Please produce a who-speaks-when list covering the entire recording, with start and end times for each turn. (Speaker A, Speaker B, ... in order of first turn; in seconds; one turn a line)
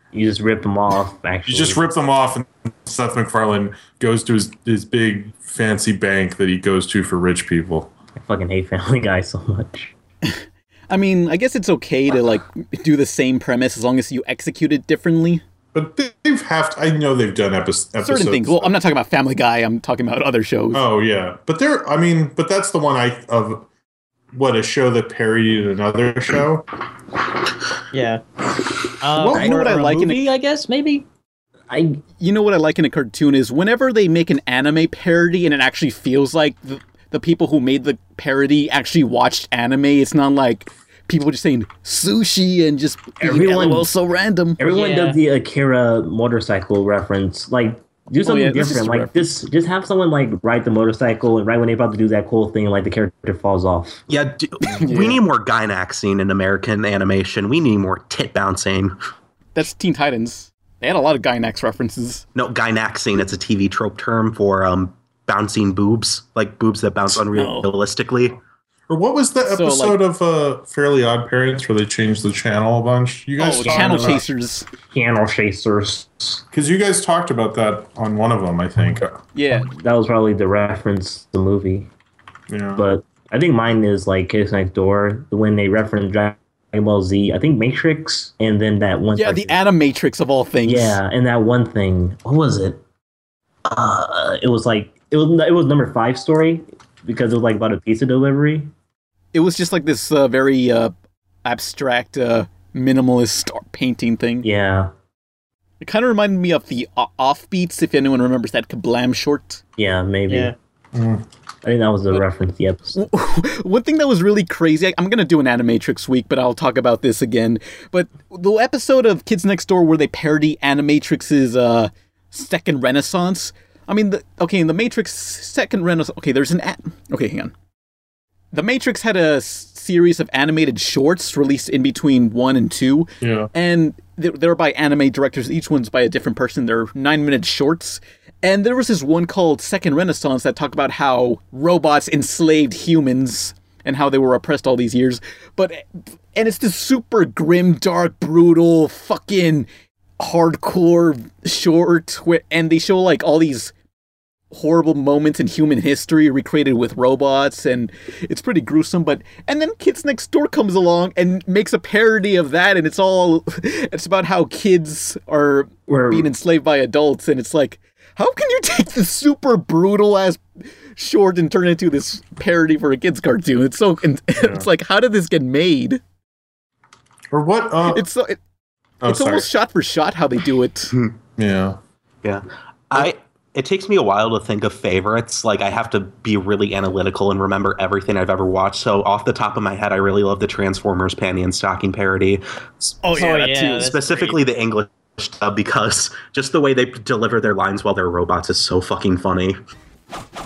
Speaker A: 0.1-1.8
Speaker B: 1.4-7.9
Speaker A: 8.2-9.9
Speaker C: 10.2-15.4
Speaker B: 15.7-18.7
Speaker C: 18.0-20.8
Speaker B: 20.7-23.6
Speaker B: 24.3-26.6
Speaker D: 27.9-28.2
Speaker D: 29.0-31.0
Speaker B: 29.2-29.5
Speaker A: 29.2-29.9
Speaker C: 29.4-30.2
Speaker A: 31.7-32.0
Speaker C: 32.2-44.6
Speaker A: 43.2-43.9
Speaker A: 44.6-54.0
Speaker D: 44.7-45.2
Speaker C: 48.2-49.2
Speaker E: 54.1-59.0
Speaker C: 54.6-55.2
Speaker C: 59.5-62.2
Speaker E: 62.3-68.4
Speaker C: 67.3-67.7
Speaker B: 68.9-74.2
Speaker C: 69.5-70.0
Speaker C: 73.4-74.7
Speaker A: 73.5-74.2
Speaker A: 74.9-76.4
Speaker B: 76.5-79.2
Speaker C: 79.3-79.7
Speaker A: 79.7-81.9
Speaker B: 82.5-82.8
Speaker A: 82.8-89.6
Speaker C: 89.1-91.0
Speaker A: 90.6-92.8
Speaker A: 93.7-98.7
Speaker C: 99.3-100.9
Speaker C: 101.4-104.5
Speaker A: 104.4-104.9
Speaker C: 105.8-109.6
Speaker A: 109.8-110.5
Speaker D: 110.3-110.5
Speaker B: 110.9-111.2
Speaker A: 111.6-113.0
Speaker C: 112.9-127.5
Speaker C: 128.5-149.7
Speaker B: 133.2-133.5
Speaker C: 150.2-153.7
Speaker C: 154.5-170.4
Speaker A: 165.9-166.3
Speaker C: 170.9-176.0
Speaker B: 174.4-174.7
Speaker B: 177.3-178.0
Speaker C: 177.9-178.4
Speaker B: 179.0-179.5
Speaker C: 179.0-180.9
Speaker B: 181.4-181.8
Speaker E: 182.2-192.9
Speaker C: 193.0-194.3
Speaker D: 193.1-194.4
Speaker E: 193.8-199.6